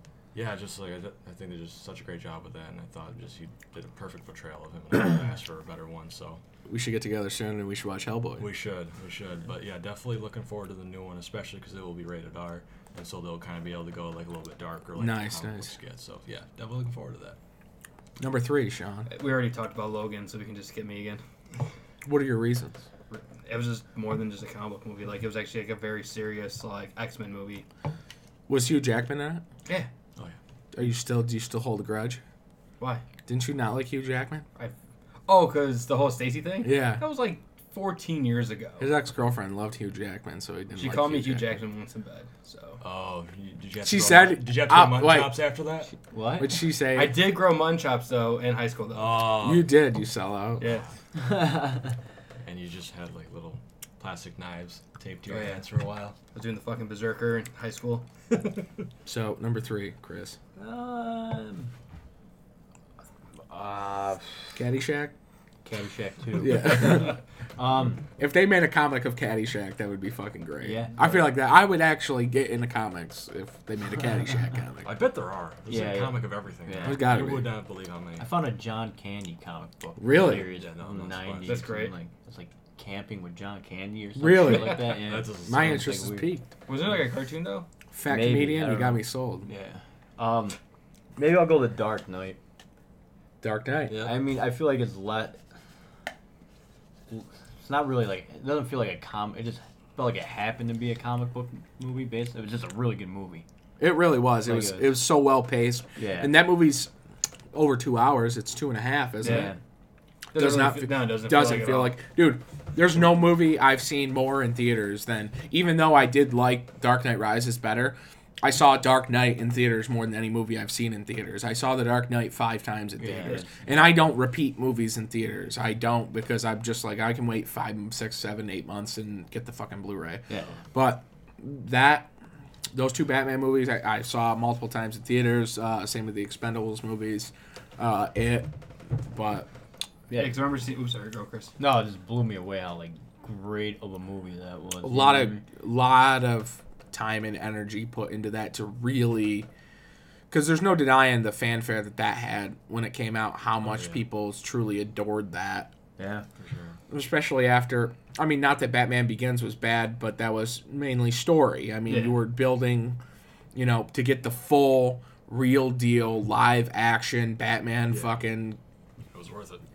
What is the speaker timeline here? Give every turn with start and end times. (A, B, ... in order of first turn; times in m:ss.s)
0:00.3-0:06.4 A
0:06.7-0:08.5 B
0:08.4-0:17.4 A
0:15.0-0:15.7 B
0:18.2-0:19.1 B
0:19.1-0:21.2 C
0:22.0-0:22.7 B
0:23.1-0:27.6 C
0:28.5-0:29.4 B
0:30.7-0:32.2 B
0:33.3-0:34.4 B
0:35.3-0:38.9 C
0:36.6-0:37.0 B
0:38.8-0:41.5 B
0:40.7-0:42.8 C
0:42.8-0:45.9 A
0:43.8-0:45.4 B
0:46.1-0:46.5 D
0:46.4-0:47.2 B
0:46.9-0:49.3 C
0:48.9-0:49.7 A
0:49.4-0:50.6 B
0:50.6-0:50.8 C
0:51.2-0:51.9 D
0:52.4-0:56.2 A
0:55.3-0:55.6 C
0:56.3-0:58.0 C
0:59.0-1:00.4 B
1:00.6-1:01.7 D
1:03.5-1:04.6 D
1:04.6-1:05.1 B
1:05.6-1:08.0 D
1:06.4-1:07.2 B
1:08.2-1:14.9 B
1:10.6-1:11.3 D
1:14.8-1:18.3 A
1:15.7-1:17.2 D
1:16.8-1:17.5 B
1:18.2-1:26.3 D
1:20.0-1:20.5 B
1:20.5-1:21.6 A
1:21.4-1:21.9 C
1:24.2-1:26.4 B
1:24.9-1:25.9 A
1:26.7-1:27.7 C
1:27.9-1:29.5 B
1:28.1-1:30.6 D
1:31.2-1:32.4 D
1:33.4-1:34.0 B
1:33.9-1:34.2 A
1:34.0-1:35.4 D
1:37.1-1:43.4 D
1:43.8-1:46.9 B
1:44.4-1:45.0 D
1:46.0-1:46.4 D
1:47.5-1:49.5 B
1:49.2-1:49.5 C
1:49.2-1:49.6 D
1:50.3-1:52.0 C
1:50.3-2:12.1 B
2:03.0-2:03.5 D
2:10.3-2:10.6 D
2:12.7-2:19.5 B
2:20.1-2:20.4 D
2:20.1-2:21.5 C
2:21.6-2:25.4 D
2:24.8-2:29.5 B
2:30.3-2:35.7 B
2:33.6-2:34.0 A
2:36.0-2:36.2 D
2:36.4-2:36.8 A
2:36.9-2:43.0 B
2:41.9-2:42.2 C
2:43.5-2:48.6 B
2:47.9-2:48.2 A
2:49.1-2:49.6 A